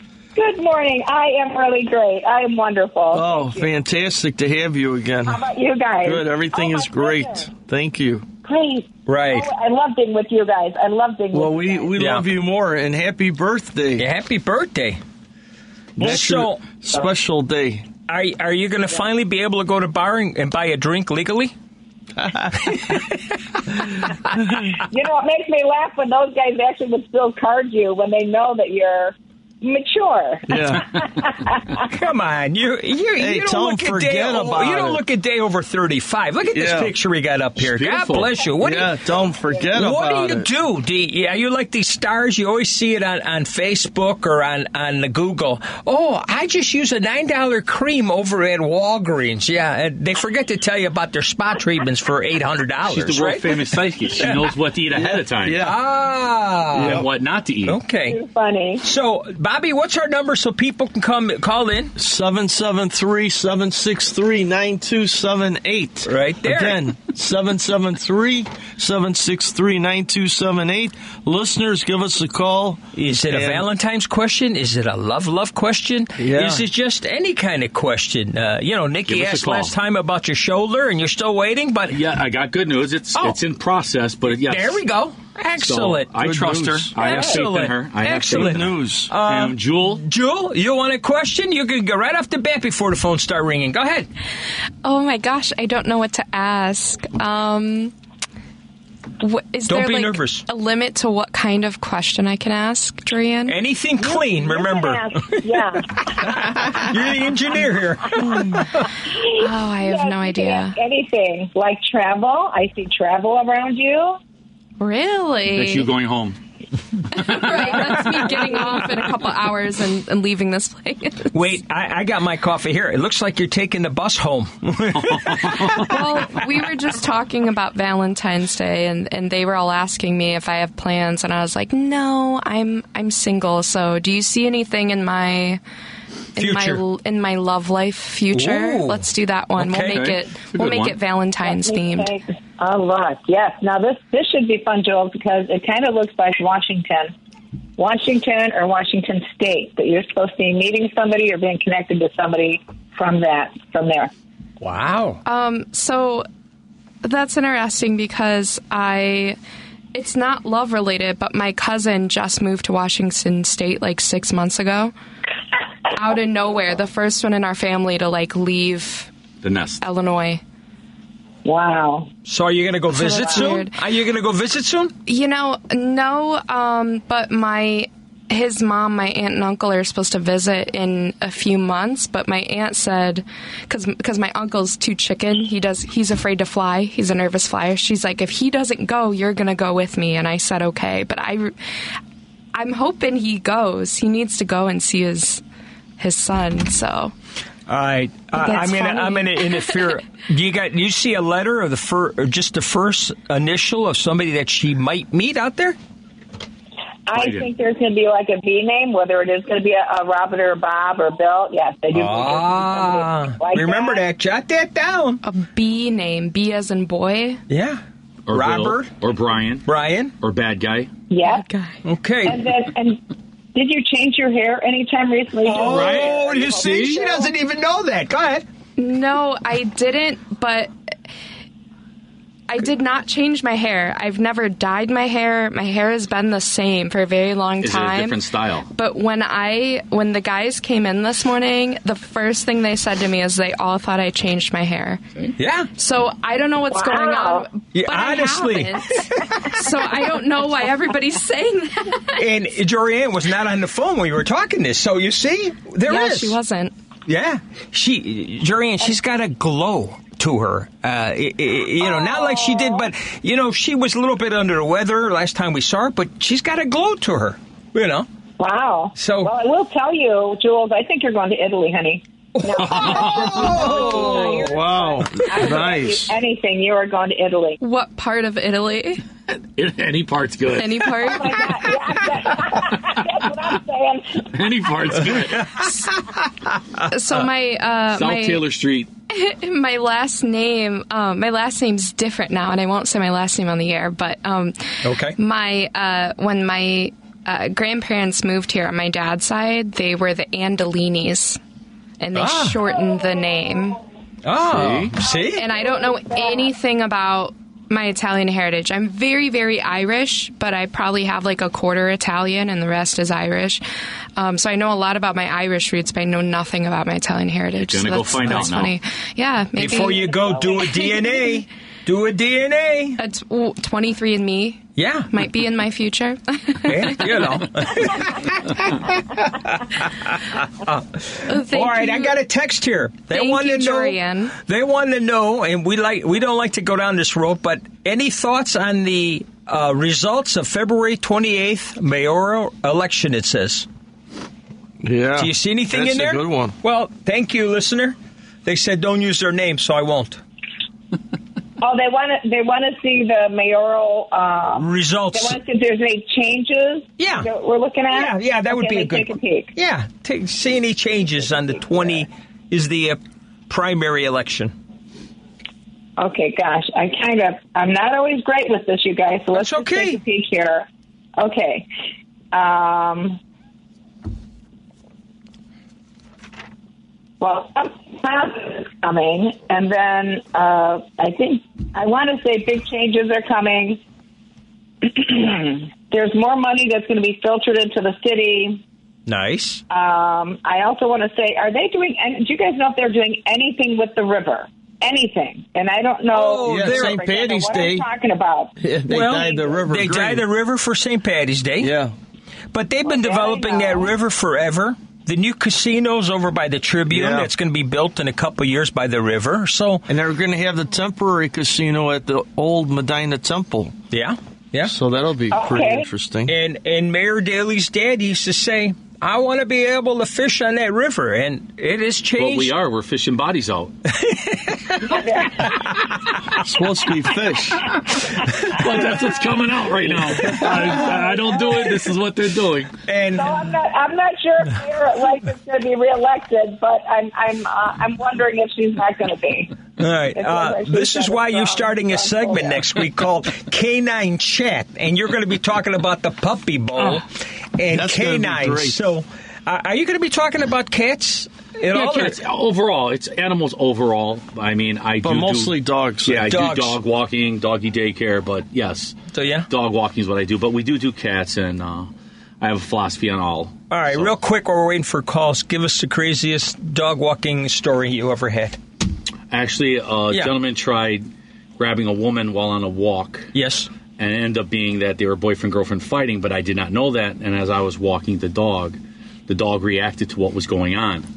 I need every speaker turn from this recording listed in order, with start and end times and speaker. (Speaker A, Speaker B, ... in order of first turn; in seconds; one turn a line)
Speaker A: 0.3-3.7
Speaker B: 3.1-5.4
Speaker A: 5.3-7.5
Speaker B: 6.0-8.3
Speaker A: 8.4-11.9
Speaker C: 9.1-9.5
Speaker B: 11.3-14.1
Speaker C: 12.0-12.2
Speaker C: 14.0-15.0
Speaker B: 16.0-17.9
Speaker C: 16.0-16.6
Speaker C: 18.1-21.5
Speaker B: 22.2-22.9
Speaker C: 22.6-23.2
Speaker C: 23.8-24.1
Speaker A: 24.7-31.8
Speaker B: 30.5-30.9
Speaker C: 31.9-38.9
Speaker B: 33.2-35.0
Speaker B: 36.5-36.9
Speaker D: 37.6-38.4
Speaker B: 38.6-40.5
Speaker C: 39.7-53.6
Speaker D: 52.9-55.6
Speaker C: 54.1-54.5
Speaker B: 55.0-55.8
Speaker C: 55.6-57.0
Speaker D: 56.7-57.8
Speaker B: 56.8-57.0
Speaker C: 57.7-58.2
Speaker A: 58.1-58.8
Speaker C: 58.8-61.9
Speaker B: 62.0-73.7
Speaker C: 66.0-66.8
Speaker C: 73.0-82.0
Speaker B: 76.2-76.7
Speaker D: 79.1-79.7
Speaker D: 81.9-84.8
Speaker C: 84.5-86.1
Speaker D: 85.6-88.7
Speaker B: 86.2-86.9
Speaker C: 87.0-94.1
Speaker B: 88.3-89.1
Speaker D: 89.2-90.0
Speaker E: 94.8-97.9
Speaker E: 99.2-103.6
Speaker C: 99.7-100.4
Speaker C: 103.5-105.4
Speaker A: 104.0-106.8
Speaker C: 106.1-108.9
Speaker A: 109.0-114.2
Speaker E: 109.4-110.8
Speaker E: 114.8-115.9
Speaker D: 115.5-116.4
Speaker E: 117.1-121.3
Speaker D: 117.3-118.0
Speaker C: 118.2-118.5
Speaker C: 121.3-125.8
Speaker D: 124.9-126.3
Speaker E: 125.8-135.6
Speaker E: 136.4-142.1
Speaker C: 136.4-136.8
Speaker C: 138.3-139.1
Speaker C: 139.6-140.1
Speaker D: 139.8-141.0
Speaker A: 141.4-147.1
Speaker A: 147.8-154.1
Speaker C: 154.6-155.2
Speaker E: 155.2-156.3
Speaker E: 157.0-159.4
Speaker E: 159.9-164.9
Speaker E: 165.9-169.1
Speaker D: 169.4-169.8
Speaker E: 169.8-170.4
Speaker A: 171.4-172.1
Speaker C: 172.3-174.9
Speaker E: 172.9-173.8
Speaker E: 175.1-191.6
Speaker E: 192.5-195.4
Speaker E: 196.0-197.1
Speaker C: 197.7-205.8
Speaker E: 198.4-199.7
Speaker A: 207.1-214.0
Speaker D: 207.1-207.5
Speaker C: 211.9-215.2
Speaker E: 215.2-217.4
Speaker C: 217.5-218.9
Speaker D: 218.3-219.7
Speaker C: 219.7-220.1
Speaker D: 220.2-220.9
Speaker A: 221.1-221.4
Speaker E: 221.4-221.8
Speaker C: 221.8-222.5
Speaker A: 222.2-223.0
Speaker A: 223.5-227.3
Speaker C: 225.4-228.4
Speaker D: 225.5-227.0
Speaker E: 228.8-230.7
Speaker E: 232.5-245.0
Speaker D: 237.6-238.7
Speaker C: 245.4-245.7
Speaker E: 245.8-252.2
Speaker A: 246.7-247.5
Speaker C: 247.7-248.8
Speaker C: 252.2-256.4
Speaker E: 255.8-256.7
Speaker C: 257.1-268.1
Speaker A: 261.8-262.9
Speaker A: 268.4-277.6
Speaker C: 269.0-269.3
Speaker C: 272.4-274.4
Speaker D: 272.6-273.5
Speaker B: 273.4-276.1
Speaker E: 277.6-279.0
Speaker D: 279.6-280.9
Speaker E: 280.6-281.4
Speaker A: 281.0-284.7
Speaker D: 282.6-283.0
Speaker D: 284.3-285.7
Speaker E: 286.9-288.4
Speaker D: 287.9-288.9
Speaker E: 289.1-301.4
Speaker C: 294.8-295.2
Speaker E: 302.0-303.8
Speaker C: 302.1-302.6
Speaker C: 304.2-305.4
Speaker D: 304.4-304.9
Speaker E: 305.4-313.6
Speaker E: 314.2-321.2
Speaker D: 317.6-318.7
Speaker C: 319.6-323.0
Speaker A: 320.0-320.5
Speaker E: 323.0-327.4
Speaker C: 324.8-325.1
Speaker C: 326.6-343.7
Speaker E: 331.3-332.1
Speaker E: 333.1-334.4
Speaker B: 344.8-346.5
Speaker C: 345.2-350.2
Speaker A: 351.6-359.5
Speaker C: 354.6-355.4
Speaker C: 357.0-357.3
Speaker C: 357.9-364.5
Speaker A: 366.0-371.7
Speaker C: 369.3-370.0
Speaker A: 372.3-373.2
Speaker A: 377.2-383.8
Speaker A: 384.8-388.6
Speaker C: 389.1-389.6
Speaker A: 389.7-398.5
Speaker C: 396.1-397.0
Speaker B: 396.4-397.9
Speaker B: 398.6-400.3
Speaker C: 398.9-401.7
Speaker A: 399.2-399.6
Speaker B: 401.6-401.9
Speaker C: 402.5-409.9
Speaker A: 402.9-403.9
Speaker B: 406.9-407.3
Speaker B: 409.9-413.8
Speaker C: 413.9-414.7
Speaker B: 414.6-416.4
Speaker A: 415.3-415.9
Speaker C: 416.3-422.5
Speaker D: 422.2-423.7
Speaker C: 423.9-424.9
Speaker A: 424.9-425.8
Speaker B: 426.4-427.7
Speaker D: 428.5-432.7
Speaker A: 430.7-431.6
Speaker C: 432.9-433.3
Speaker A: 433.1-442.8
Speaker C: 439.8-447.1
Speaker C: 447.6-452.2
Speaker B: 447.7-448.8
Speaker D: 451.7-455.5
Speaker B: 455.0-456.4
Speaker D: 456.1-464.1
Speaker C: 456.3-456.8
Speaker C: 459.1-459.5
Speaker C: 463.7-468.6
Speaker D: 469.3-473.3
Speaker C: 473.3-473.7
Speaker D: 474.0-481.1